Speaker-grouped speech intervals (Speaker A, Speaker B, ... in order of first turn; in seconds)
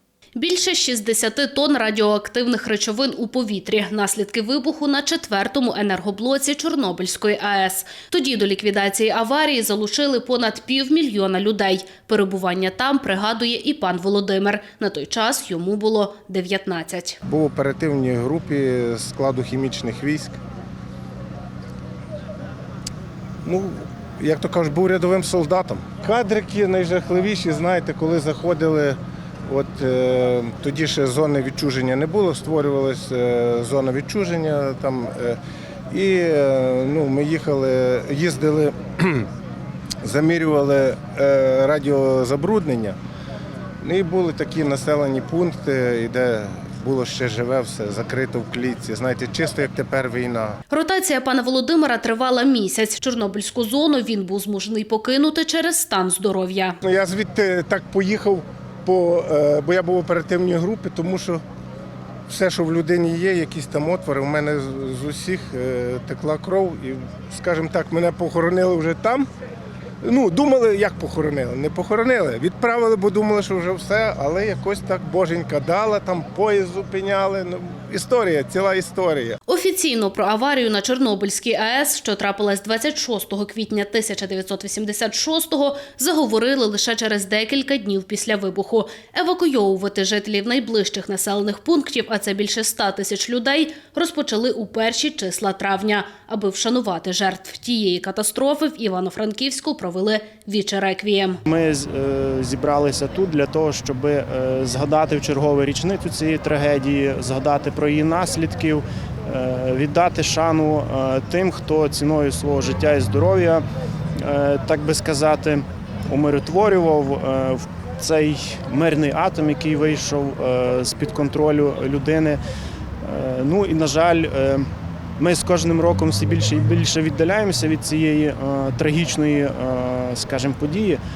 Speaker A: 0.3-17.2, 50.7-56.8, 79.5-101.4
Speaker B: 17.2-20.4, 23.4-35.4, 35.9-39.3, 40.0-43.0, 43.8-50.6, 56.8-61.4, 62.3-69.3, 70.0-79.4
Speaker C: 101.5-113.6, 114.2-122.4, 123.0-124.7, 125.2-131.0